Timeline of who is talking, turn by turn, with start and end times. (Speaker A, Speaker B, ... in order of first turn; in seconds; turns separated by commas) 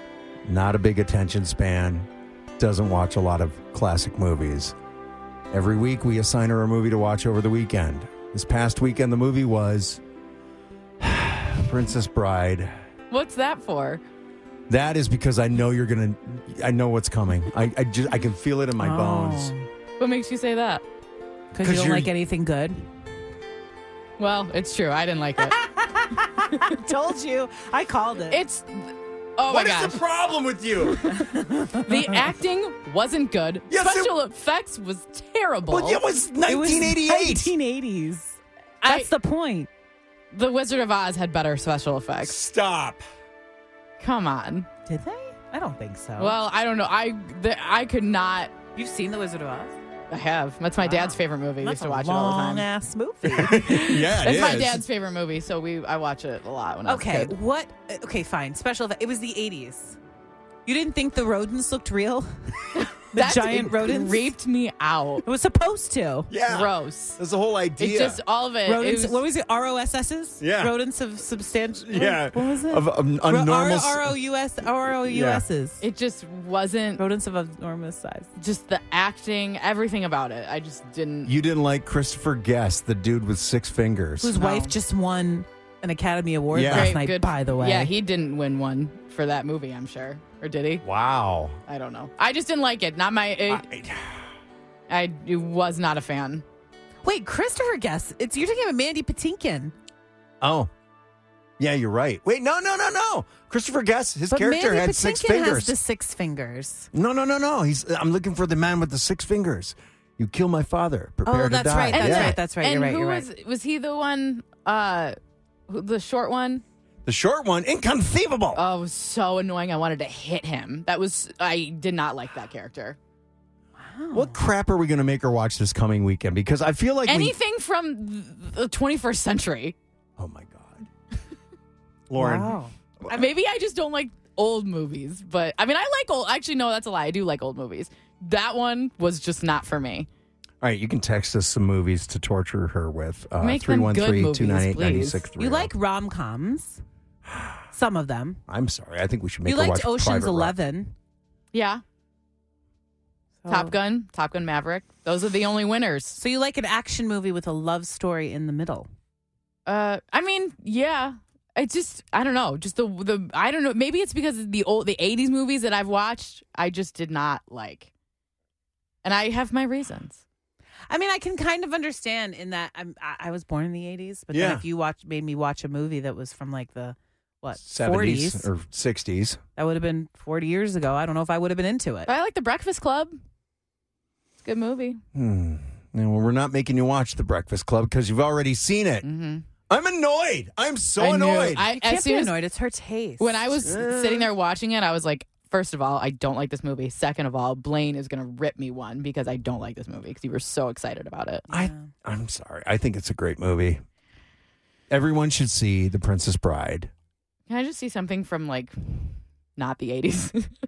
Speaker A: 0.5-4.7, Speaker A: 5.5-10.0, Speaker A: 11.0-12.7, Speaker B: 13.1-14.0, Speaker A: 14.7-19.5, Speaker C: 18.8-19.7, Speaker B: 20.0-20.8, Speaker C: 21.5-22.9, Speaker A: 21.6-22.1, Speaker B: 24.2-25.6, Speaker C: 25.4-28.4, Speaker B: 28.3-30.0, Speaker A: 29.5-31.1, Speaker B: 30.9-36.0, Speaker C: 31.2-32.2, Speaker A: 33.7-34.1, Speaker A: 35.7-37.5, Speaker C: 36.5-39.7, Speaker B: 38.8-39.1, Speaker B: 40.3-42.4, Speaker A: 42.2-43.0, Speaker B: 44.0-44.7, Speaker C: 44.9-46.4, Speaker B: 46.2-48.5, Speaker C: 48.8-49.8, Speaker B: 50.1-52.7, Speaker C: 50.8-53.6, Speaker A: 53.2-54.8, Speaker B: 53.5-57.3, Speaker C: 56.8-60.0, Speaker C: 60.7-64.3, Speaker B: 62.8-65.2, Speaker C: 65.2-66.3, Speaker A: 66.3-68.2, Speaker B: 66.4-67.2, Speaker B: 67.8-69.2, Speaker C: 68.7-75.8, Speaker A: 70.4-70.7, Speaker A: 71.8-74.1, Speaker A: 75.0-75.4, Speaker B: 75.8-77.0, Speaker C: 77.0-78.3, Speaker B: 78.4-81.3, Speaker A: 81.2-84.3, Speaker C: 84.2-87.9, Speaker B: 84.3-84.8, Speaker A: 86.5-87.0, Speaker B: 86.7-90.8, Speaker A: 90.8-91.6, Speaker B: 91.7-93.6, Speaker A: 93.5-94.2, Speaker B: 94.9-96.4, Speaker C: 97.0-99.7, Speaker A: 100.4-100.7, Speaker A: 101.6-105.7, Speaker C: 104.3-106.9, Speaker A: 106.9-112.4, Speaker C: 111.2-113.3, Speaker B: 111.9-115.1, Speaker B: 115.7-116.6, Speaker A: 117.0-118.6, Speaker B: 118.5-123.0, Speaker C: 123.8-124.4, Speaker A: 124.1-127.3, Speaker B: 127.0-129.8, Speaker A: 130.2-130.9, Speaker A: 132.1-133.2, Speaker C: 132.2-132.7, Speaker B: 133.1-140.1, Speaker A: 140.6-145.7, Speaker B: 143.4-145.3, Speaker C: 145.4-146.8, Speaker C: 147.7-148.4, Speaker A: 148.5-150.6, Speaker C: 149.4-150.9, Speaker B: 151.5-151.8, Speaker C: 153.4-153.8, Speaker B: 153.5-156.2, Speaker C: 156.2-158.9, Speaker B: 159.7-167.9, Speaker B: 169.0-170.2, Speaker C: 170.9-178.5, Speaker A: 174.3-174.6, Speaker A: 177.6-179.4, Speaker C: 179.6-182.1, Speaker B: 182.1-183.2, Speaker B: 184.4-185.0, Speaker A: 185.2-189.1, Speaker B: 189.0-189.5, Speaker A: 189.7-191.7, Speaker B: 191.0-192.3, Speaker C: 191.6-193.6, Speaker B: 193.2-201.5, Speaker A: 193.6-194.3, Speaker C: 201.5-201.9, Speaker A: 201.5-203.8, Speaker A: 204.9-206.9, Speaker B: 207.5-210.5